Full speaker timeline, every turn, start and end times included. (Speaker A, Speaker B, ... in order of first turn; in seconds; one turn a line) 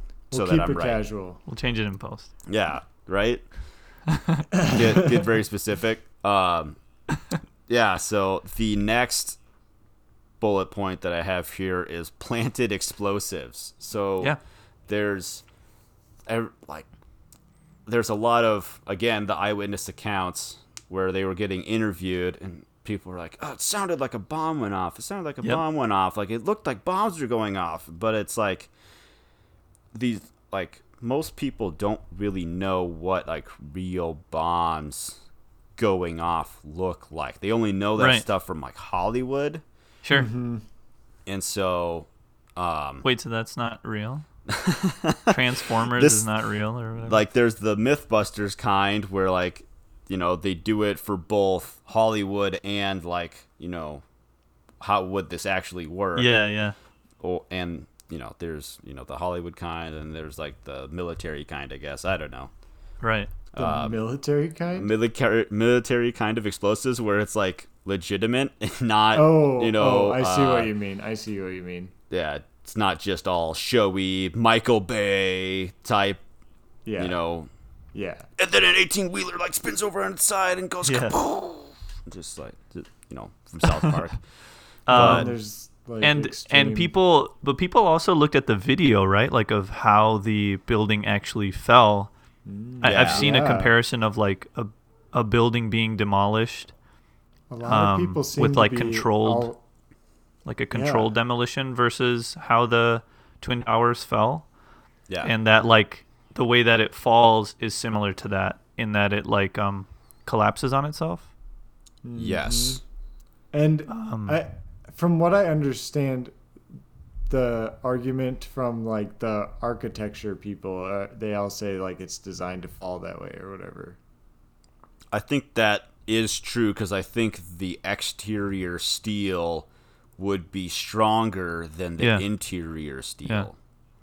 Speaker A: 0.3-1.0
Speaker B: 0.3-1.4
Speaker C: 1.5-2.3
Speaker A: 2.5-3.5
Speaker C: 4.1-4.5
Speaker A: 4.7-6.8
Speaker A: 7.7-9.4
Speaker A: 10.4-14.3
Speaker A: 14.9-15.4
Speaker A: 16.3-16.9
Speaker A: 17.9-28.7
Speaker A: 29.9-35.2
Speaker A: 35.8-39.6
Speaker C: 38.0-38.3
Speaker C: 40.0-40.3
Speaker B: 40.1-40.6
Speaker A: 41.3-43.1
Speaker C: 43.0-44.2
Speaker A: 44.5-46.2
Speaker C: 45.3-47.2
Speaker A: 47.0-54.0
Speaker A: 54.8-56.3
Speaker C: 56.2-56.8
Speaker A: 57.2-62.5
Speaker C: 63.0-63.3
Speaker A: 63.5-64.0
Speaker B: 63.6-64.9
Speaker A: 64.7-70.7
Speaker B: 69.1-71.9
Speaker A: 72.1-76.2
Speaker B: 76.8-77.2
Speaker A: 77.0-77.5
Speaker B: 77.9-78.3
Speaker A: 78.4-84.2
Speaker C: 80.8-81.2
Speaker C: 84.9-85.4
Speaker A: 84.9-85.3
Speaker B: 84.9-87.0
Speaker C: 86.0-92.1
Speaker B: 92.5-93.7
Speaker A: 92.8-93.2
Speaker C: 92.8-96.7
Speaker B: 97.5-99.6
Speaker C: 97.6-99.5
Speaker C: 100.5-104.5
Speaker B: 100.7-101.1
Speaker C: 105.2-111.3
Speaker B: 112.0-112.8
Speaker A: 112.2-112.8
Speaker B: 113.5-116.3
Speaker C: 113.9-114.4
Speaker B: 117.3-124.0
Speaker A: 125.1-133.6
Speaker C: 132.0-132.2